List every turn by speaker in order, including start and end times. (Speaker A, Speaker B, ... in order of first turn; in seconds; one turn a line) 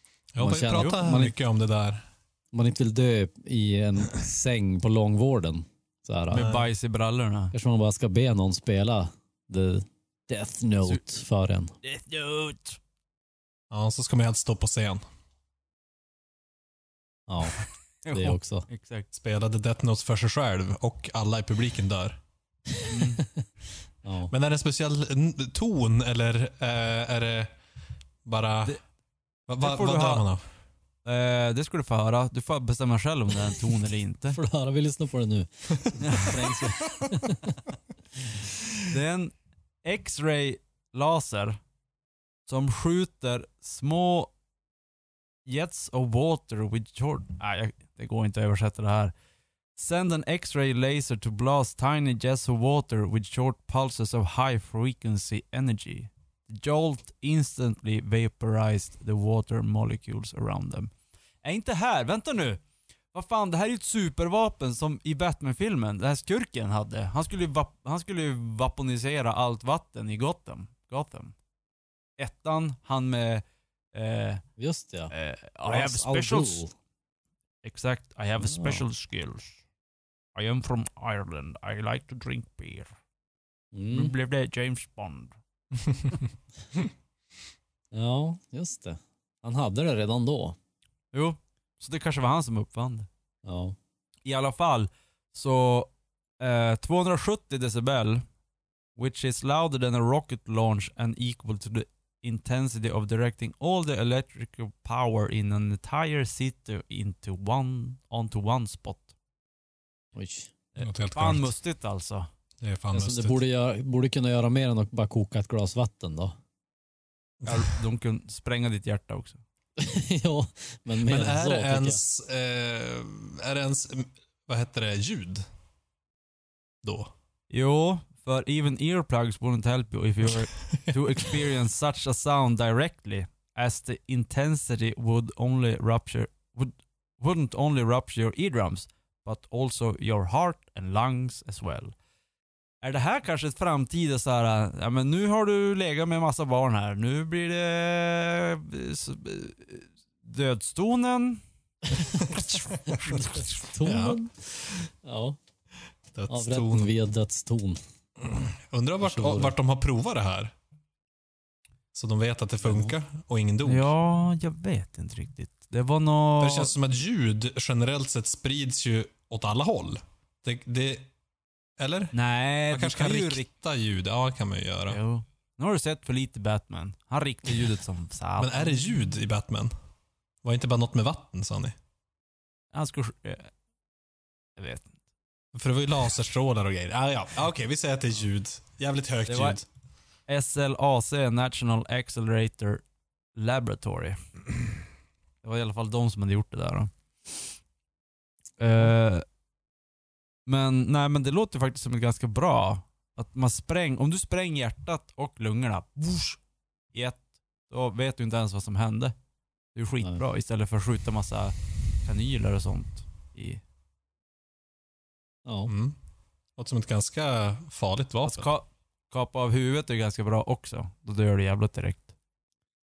Speaker A: 0.3-2.0
Speaker B: 0.4-1.3
Speaker B: 2.5-6.5
Speaker C: 6.3-7.5
Speaker A: 6.3-6.6
Speaker B: 7.5-11.7
Speaker C: 11.8-12.8
Speaker A: 13.7-15.0
Speaker B: 17.3-18.6
Speaker C: 18.0-19.1
Speaker A: 19.1-22.2
Speaker C: 22.9-23.2
Speaker B: 24.0-24.3
Speaker A: 24.3-27.6
Speaker A: 28.2-28.8
Speaker A: 29.5-30.4
Speaker C: 29.6-30.2
Speaker C: 31.0-34.4
Speaker B: 34.3-37.6
Speaker C: 36.0-36.4
Speaker C: 38.9-41.6
Speaker C: 42.5-44.3
Speaker C: 45.5-49.1
Speaker C: 49.8-60.9
Speaker C: 61.4-62.6
Speaker C: 63.1-71.3
Speaker C: 72.2-74.4
Speaker B: 74.6-75.1
Speaker C: 75.1-76.6
Speaker B: 75.6-76.7
Speaker C: 77.6-79.6
Speaker B: 78.4-78.8
Speaker C: 80.3-82.9
Speaker B: 83.7-84.1
Speaker C: 83.9-85.3
Speaker A: 85.8-86.2
Speaker B: 87.9-90.5
Speaker C: 91.1-93.1
Speaker B: 93.4-93.8
Speaker C: 94.2-98.2
Speaker C: 99.0-109.1
Speaker B: 110.1-110.5
Speaker C: 110.7-112.3
Speaker A: 110.8-111.5
Speaker A: 112.6-113.4
Speaker B: 112.9-116.3
Speaker A: 117.4-117.7
Speaker C: 117.5-119.4
Speaker B: 119.8-122.0
Speaker A: 121.0-125.5
Speaker A: 126.8-127.1
Speaker C: 127.5-141.9
Speaker C: 142.8-151.4
Speaker C: 152.0-153.5
Speaker B: 153.5-155.4
Speaker A: 153.8-154.2
Speaker A: 156.1-156.9
Speaker B: 156.3-157.8
Speaker A: 158.2-160.5
Speaker B: 159.0-159.5
Speaker A: 161.9-163.9
Speaker B: 162.6-162.9
Speaker C: 163.6-166.7
Speaker A: 166.4-171.1
Speaker A: 171.8-172.1
Speaker C: 172.1-173.4
Speaker A: 172.7-175.0
Speaker C: 174.9-178.8
Speaker A: 178.4-179.7
Speaker A: 180.4-181.8
Speaker C: 182.7-183.5
Speaker C: 184.6-185.0
Speaker A: 185.5-189.7
Speaker C: 189.3-189.6
Speaker C: 190.3-192.8
Speaker C: 193.3-194.2
Speaker C: 195.4-196.9
Speaker C: 198.6-199.2
Speaker C: 200.4-206.4
Speaker C: 206.9-209.1
Speaker C: 209.7-213.6
Speaker B: 215.4-215.7
Speaker A: 215.7-216.0
Speaker A: 216.6-218.5
Speaker C: 218.2-222.1